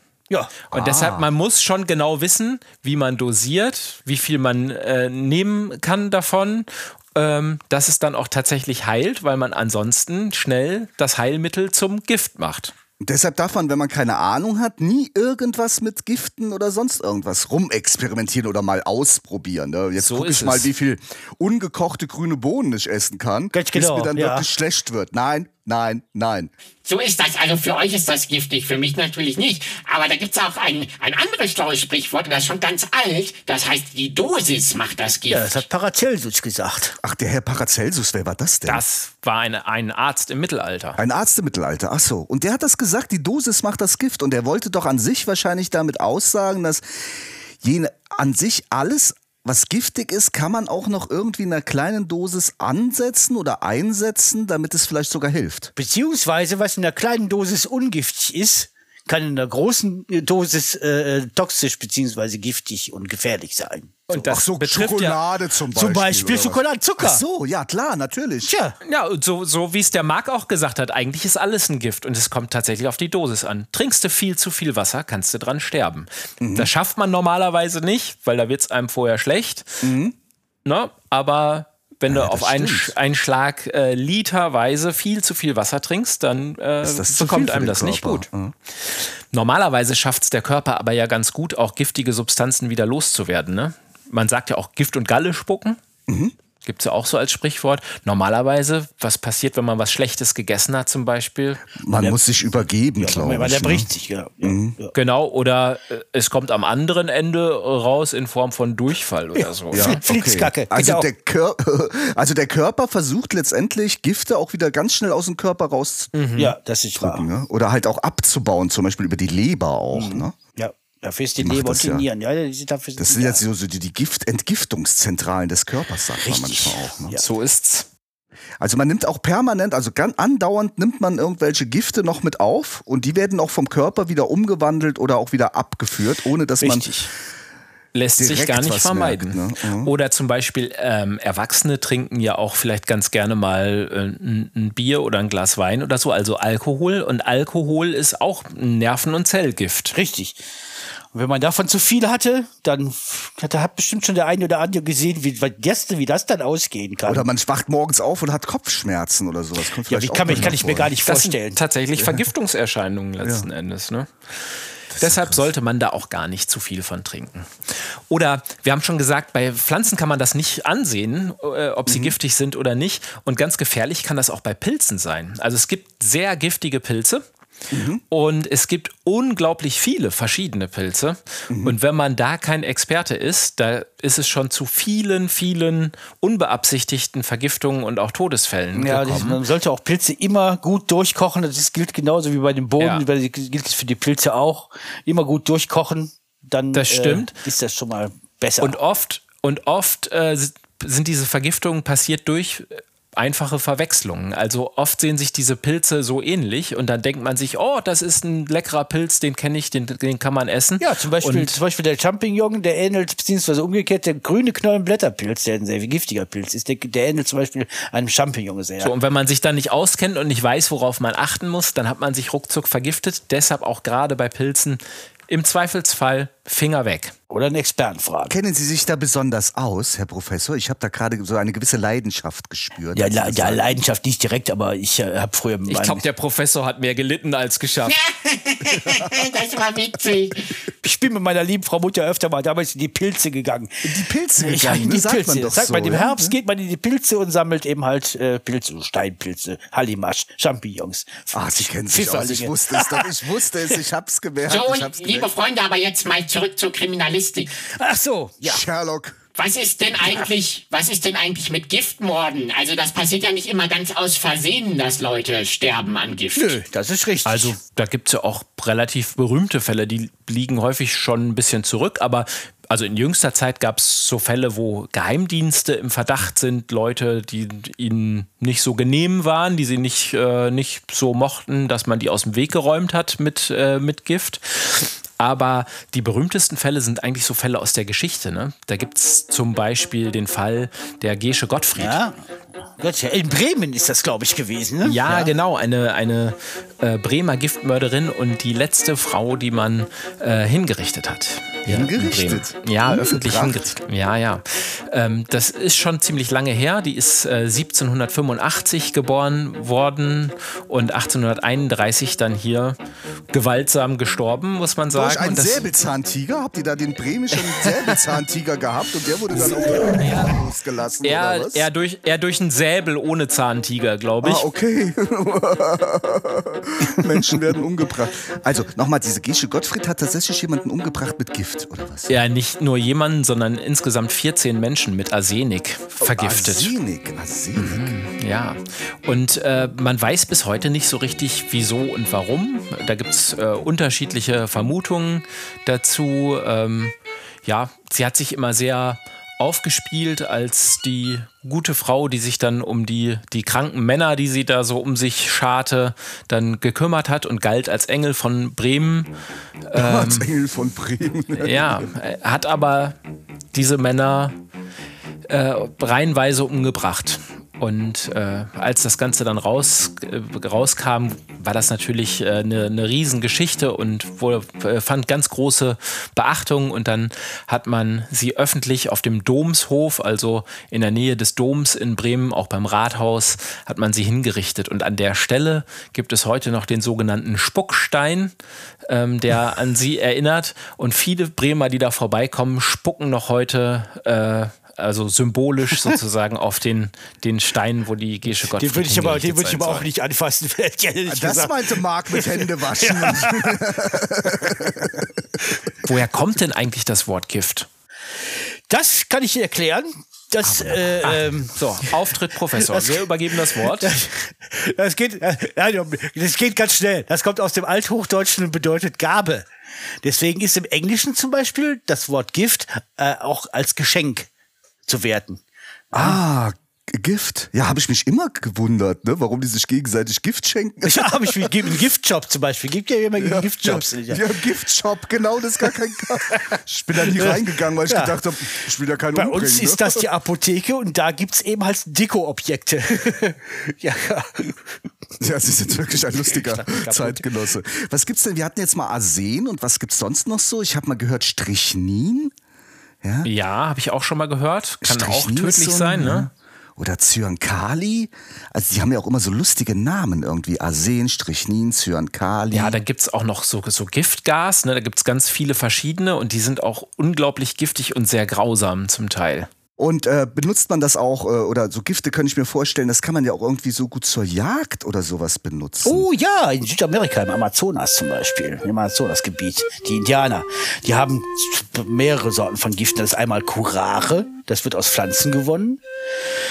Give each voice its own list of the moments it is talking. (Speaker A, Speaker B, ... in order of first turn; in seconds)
Speaker A: 0.3-0.6, 23.5-24.4, 35.3-37.0, 55.8-64.1, 65.7-67.2, 68.4-68.8, 101.9-104.9, 109.4-111.1, 116.4-117.3, 119.9-123.4, 126.2-127.2, 136.6-137.1, 149.9-150.4, 151.1-157.3, 159.9-161.6, 188.8-198.8, 210.8-218.9, 227.3-228.3, 232.9-236.0, 240.8-243.7, 244.4-253.2, 257.7-258.6, 266.4-267.6, 291.8-292.1, 292.8-295.3, 398.4-403.6, 408.7-411.9, 412.5-419.5, 420.0-424.3, 424.9-425.4, 425.9-426.2, 430.9-434.2, 436.3-438.2, 439.1-444.8, 446.0-447.2, 475.8-485.8
Speaker B: 0.7-1.3, 13.0-26.5, 37.0-38.8, 41.0-46.8, 47.6-55.7, 64.1-68.5, 76.4-76.7, 79.8-80.2, 82.1-83.0, 86.8-88.5, 96.1-96.3, 101.8-103.9, 104.4-104.8, 109.7-116.1, 117.0-120.4, 121.4-122.1, 123.0-127.2, 128.6-136.9, 138.2-139.9, 157.0-160.9, 162.0-162.3, 163.2-163.5, 164.9-165.5, 171.9-172.2, 177.7-178.0, 181.5-181.8, 228.3-233.8, 238.7-239.3, 243.8-246.4, 251.3-255.3, 258.4-259.2, 301.7-303.8, 314.9-321.7, 324.2-332.2, 336.0-337.9, 359.8-361.9, 401.1-405.1, 410.4-411.4, 425.9-431.7, 433.2-440.1, 445.2-452.3, 453.0-453.3, 454.8-462.8, 469.8-476.1
Speaker C: 0.7-12.7, 20.0-20.7, 38.7-41.0, 64.1-65.2, 68.8-79.9, 80.7-88.3, 88.8-95.8, 96.6-101.7, 104.9-110.0, 116.1-116.5, 127.1-127.9, 137.9-149.9, 160.3-177.2, 178.1-189.4, 192.8-193.1, 196.7-197.3, 198.6-211.5, 218.8-227.1, 235.7-238.0, 267.3-292.0, 294.8-312.8, 313.3-315.6, 319.9-320.3, 321.0-324.5, 332.1-336.7, 337.6-346.9, 347.4-359.1, 359.7-360.3, 361.3-363.0, 363.5-364.4, 365.3-388.3, 388.9-399.9, 405.8-407.7, 411.0-413.9, 453.2-456.3, 462.5-469.5
Speaker D: 26.9-35.6, 237.9-240.6, 254.5-257.5, 259.4-266.6